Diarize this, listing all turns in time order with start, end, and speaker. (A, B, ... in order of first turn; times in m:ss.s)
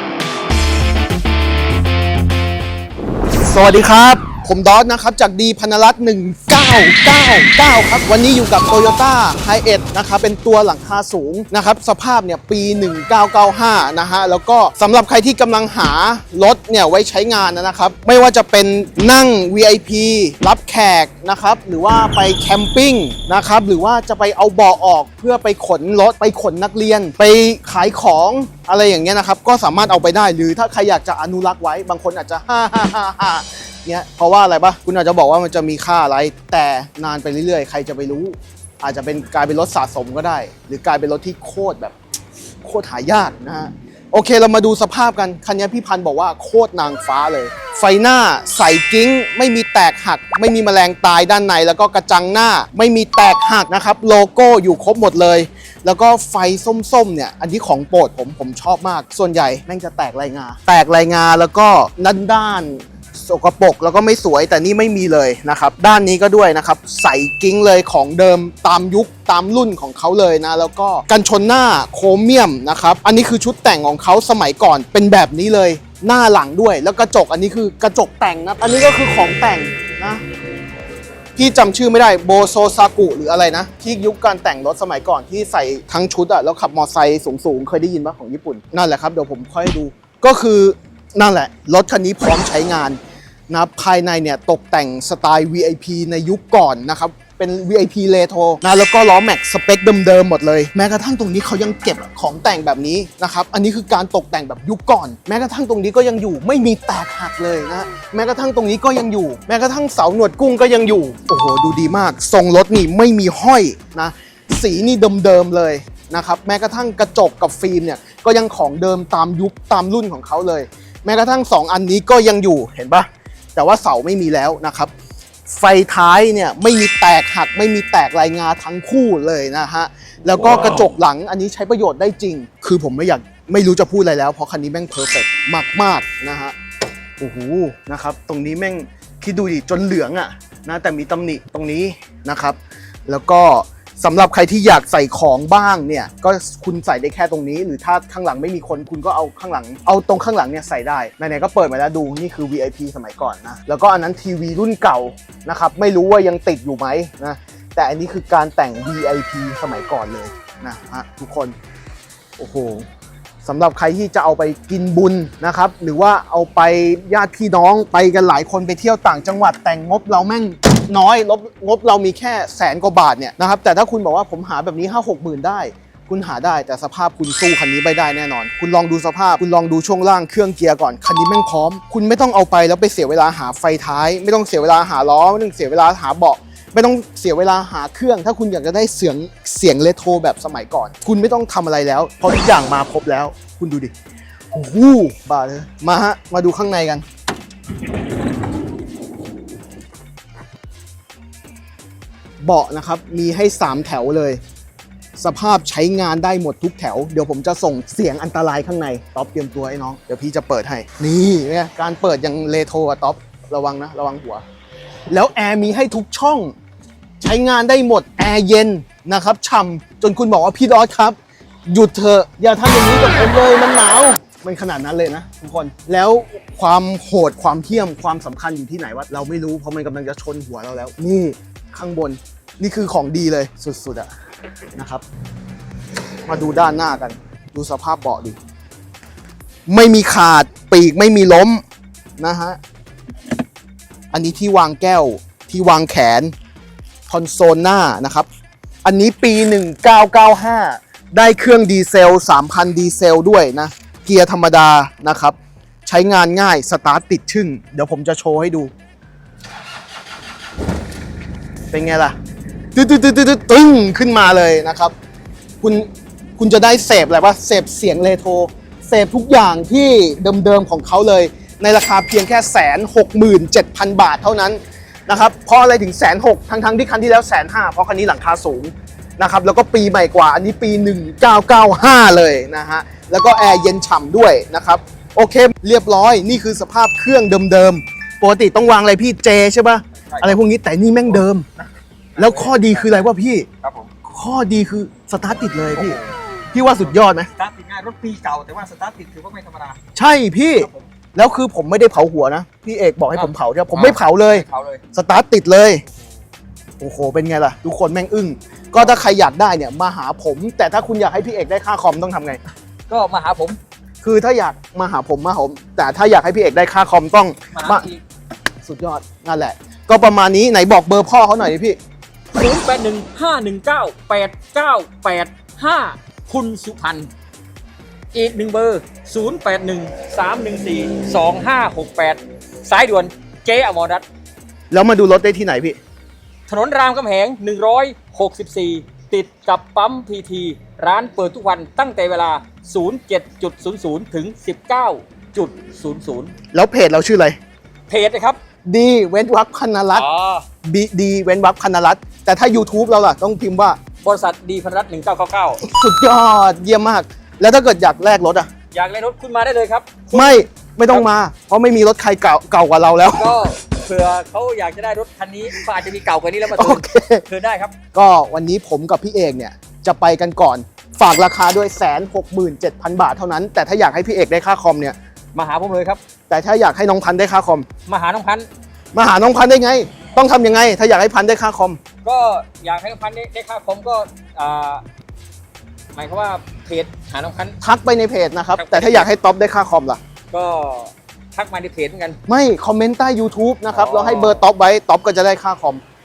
0:03.4-0:42.0 A
0:42.6-1:20.2 A
1:21.4-1:33.0 A
1:33.5-2:04.9 A
2:05.5-2:16.6 A
2:17.2-2:41.6 A
2:42.4-2:42.9 A
2:43.4-3:13.9 A
3:14.5-3:17.0 A
3:22.4-3:24.4 A
3:25.2-3:34.4 A
3:35.1-3:36.6 A
3:37.2-3:41.2 A
3:41.7-3:54.1 A
3:54.8-3:55.0 A
3:56.3-3:58.4 A
3:59.7-4:01.6 A
4:02.2-4:02.6 A
4:04.1-4:06.3 A
4:07.1-4:08.3 A
4:08.8-4:18.7 A
4:21.7-4:22.2 A
4:22.8-4:24.9 A
4:25.6-4:51.5 A
4:50.1-4:50.4 B
4:51.1-4:52.9 B
4:52.2-4:53.5 A
4:53.6-4:53.9 B
4:54.0-4:56.0 A
4:55.7-4:56.2 B
4:56.5-4:57.3 A
4:57.4-4:59.8 B
5:00.0-5:05.8 A
5:00.6-5:00.9 B
5:03.2-5:04.8 B
5:06.8-5:12.4 A
5:12.9-5:13.6 B
5:14.0-5:17.9 A
5:17.5-5:18.0 B
5:18.6-5:21.8 A
5:22.3-5:27.1 B
5:28.1-5:34.0 B
5:34.7-5:35.8 A
5:36.5-5:46.3 B
5:46.5-5:47.4 A
5:47.9-5:48.4 B
5:48.7-5:50.1 A
5:49.9-5:50.5 B
5:50.6-5:53.8 A
5:54.0-5:55.6 B
5:55.6-5:58.5 A
5:58.7-6:01.1 B
6:00.1-6:03.3 A
6:03.1-6:07.7 B
6:06.5-6:07.2 A
6:07.9-6:15.0 A
6:15.3-6:16.0 B
6:16.3-6:17.7 A
6:17.9-6:18.5 B
6:18.9-6:21.8 A
6:22.0-6:24.8 B
6:25.9-6:27.6 B
6:27.6-6:30.0 A
6:28.6-6:29.1 B
6:30.3-6:32.2 B
6:32.3-6:35.8 A
6:33.7-6:34.5 B